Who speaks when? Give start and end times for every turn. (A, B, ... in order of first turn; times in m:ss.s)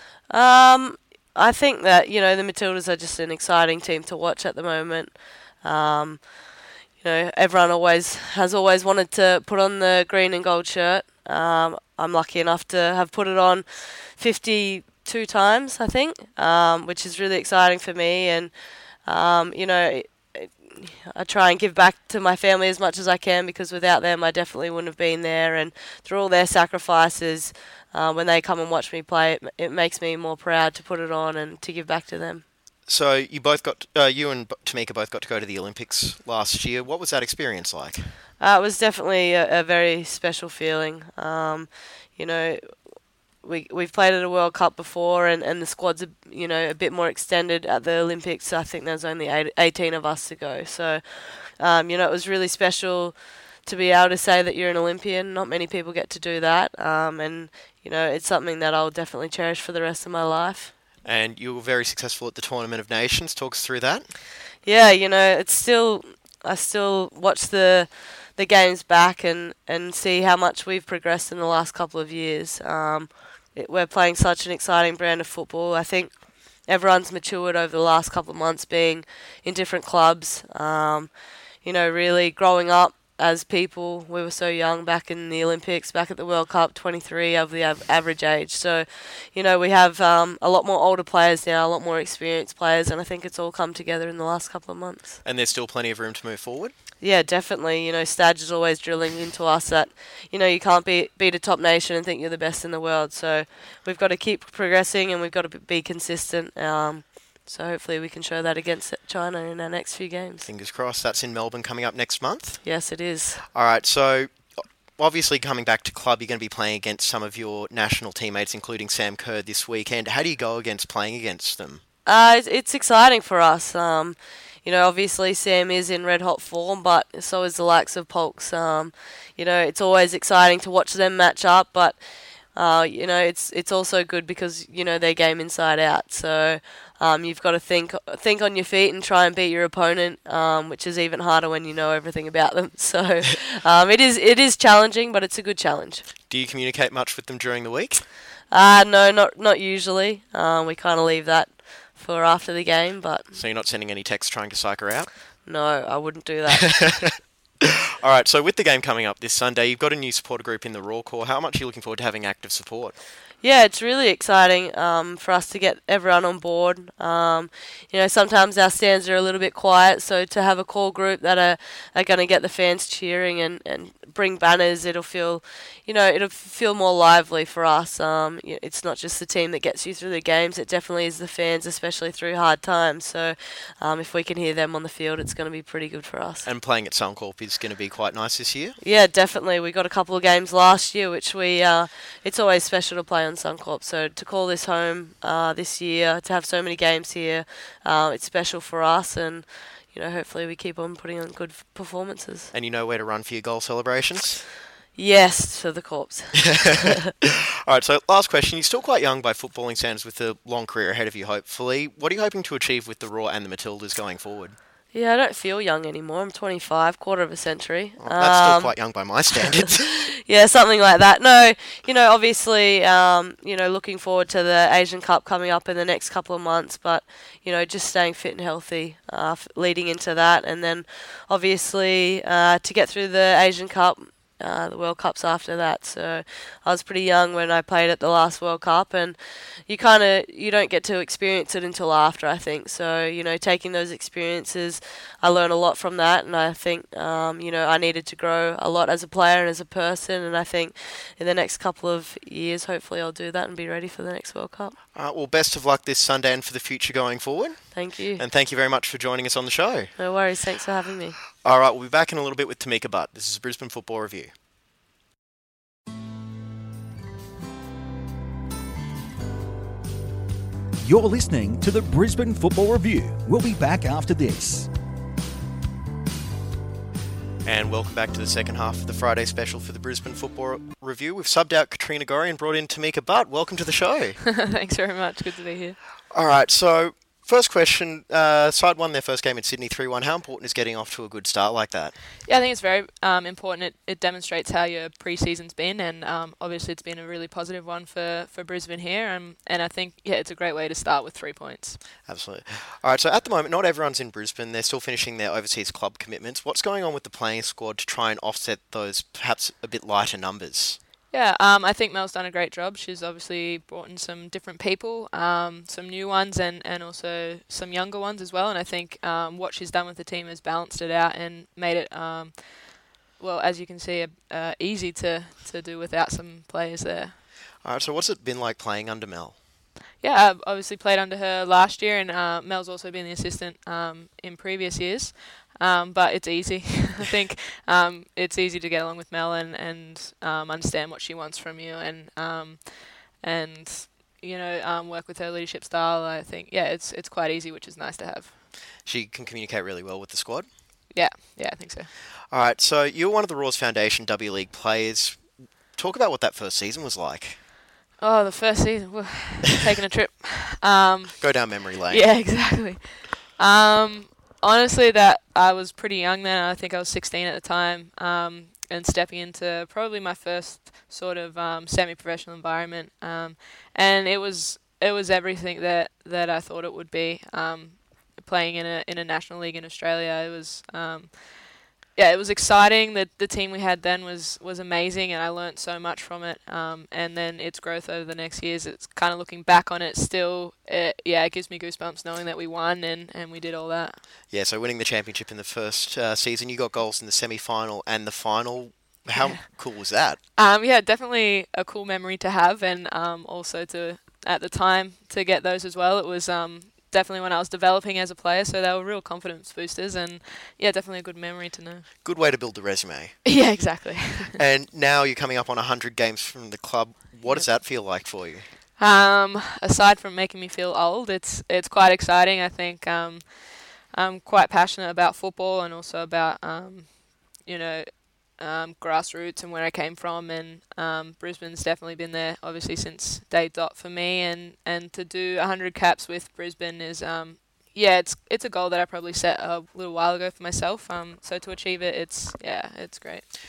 0:00.3-0:32.4 A
0:32.9-0:38.1 B
0:38.4-1:00.7 A
1:01.0-1:04.1 B
1:04.6-1:35.2 A
1:35.2-1:36.7 B
1:37.0-1:50.5 A
1:50.4-2:01.8 B
1:52.6-1:53.4 A
2:02.0-2:26.0 A
2:26.3-2:28.1 B
2:28.5-2:33.3 A
2:33.3-2:35.1 B
2:35.4-2:36.9 A
2:36.5-2:37.2 B
2:38.0-2:43.0 B
2:43.4-3:06.5 A
3:06.4-3:08.8 B
3:08.8-3:22.5 A
3:22.5-3:24.5 B
3:25.0-3:27.0 A
3:26.4-3:34.6 B
3:34.9-3:39.2 A
3:38.0-3:39.9 B
3:40.2-4:14.8 A
4:14.9-4:19.9 B
4:17.7-4:18.2 A
4:20.0-4:21.2 A
4:21.4-4:24.3 B
4:30.8-4:34.7 C
4:37.4-4:44.2 B
4:44.2-4:45.8 D
4:46.1-4:52.0 B
4:52.2-5:01.8 D
5:02.0-5:10.8 B
5:11.1-5:27.2 D
5:27.6-5:29.4 B
5:30.0-5:48.4 D
5:48.8-5:50.7 B
5:50.9-5:51.9 D
5:52.3-5:57.4 B
5:58.0-6:34.0 D
6:01.2-6:02.2 B
6:34.3-6:40.2 B
6:39.1-6:39.4 D
6:40.3-6:51.9 D
6:52.0-6:53.8 B
6:53.2-6:54.4 D
6:54.3-6:58.5 B
6:57.2-6:57.5 D
6:58.8-7:23.3 D